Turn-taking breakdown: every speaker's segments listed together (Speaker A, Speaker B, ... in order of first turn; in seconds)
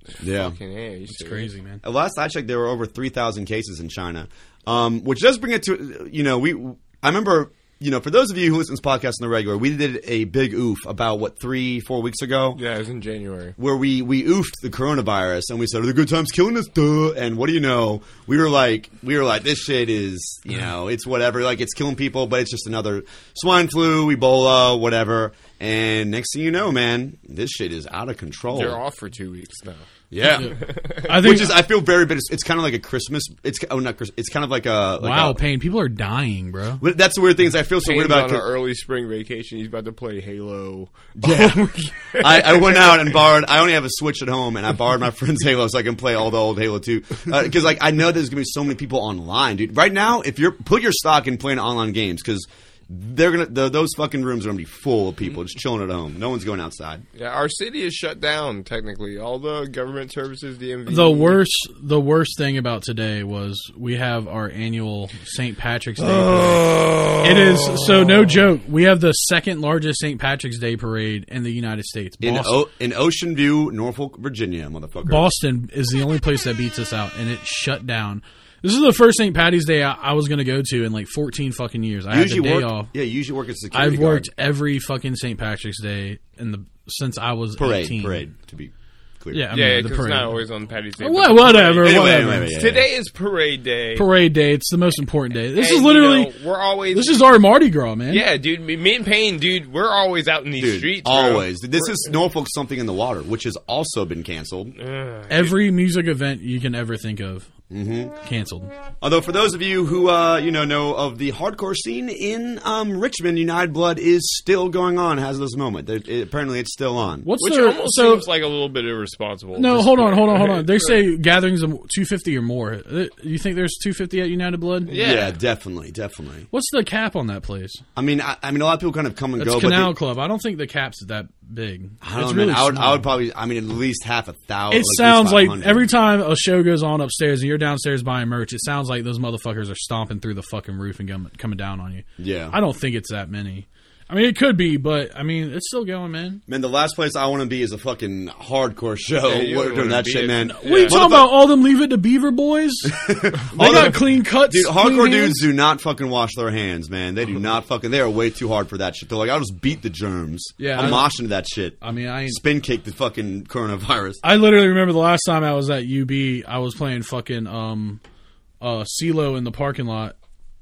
Speaker A: 0.2-0.6, 1.8-12.6, 13.6-28.8, 30.1-35.4, 36.8-38.5, 41.2-57.0, 72.2-75.2, 82.1-84.3, 87.6-89.4, 91.8-92.9, 100.6-104.8, 107.7-108.2, 109.0-117.3, 124.9-126.5, 128.0-129.9, 132.0-135.9, 142.2-142.6, 146.5-151.3, 152.8-164.2
Speaker B: 0.2-1.5, 12.5-13.6, 28.5-29.9, 30.4-31.1, 37.8-43.1, 57.1-61.4, 66.0-68.4, 89.5-94.1, 95.5-97.4, 98.1-102.1, 104.8-105.5, 117.4-121.0, 124.9-125.4, 149.2-151.0
Speaker C: 1.1-1.8, 31.0-31.6, 35.0-36.8, 60.9-72.6, 75.0-82.9, 83.7-88.2, 89.3-90.4, 91.0-92.5, 93.9-96.3, 96.9-98.2, 105.3-107.5, 108.2-108.7, 117.2-118.3, 119.5-124.9, 126.5-127.8, 129.4-133.1, 134.7-146.4, 150.4-153.0, 153.5-155.4, 160.6-161.1, 161.8-162.4, 164.2-168.0, 168.6-170.1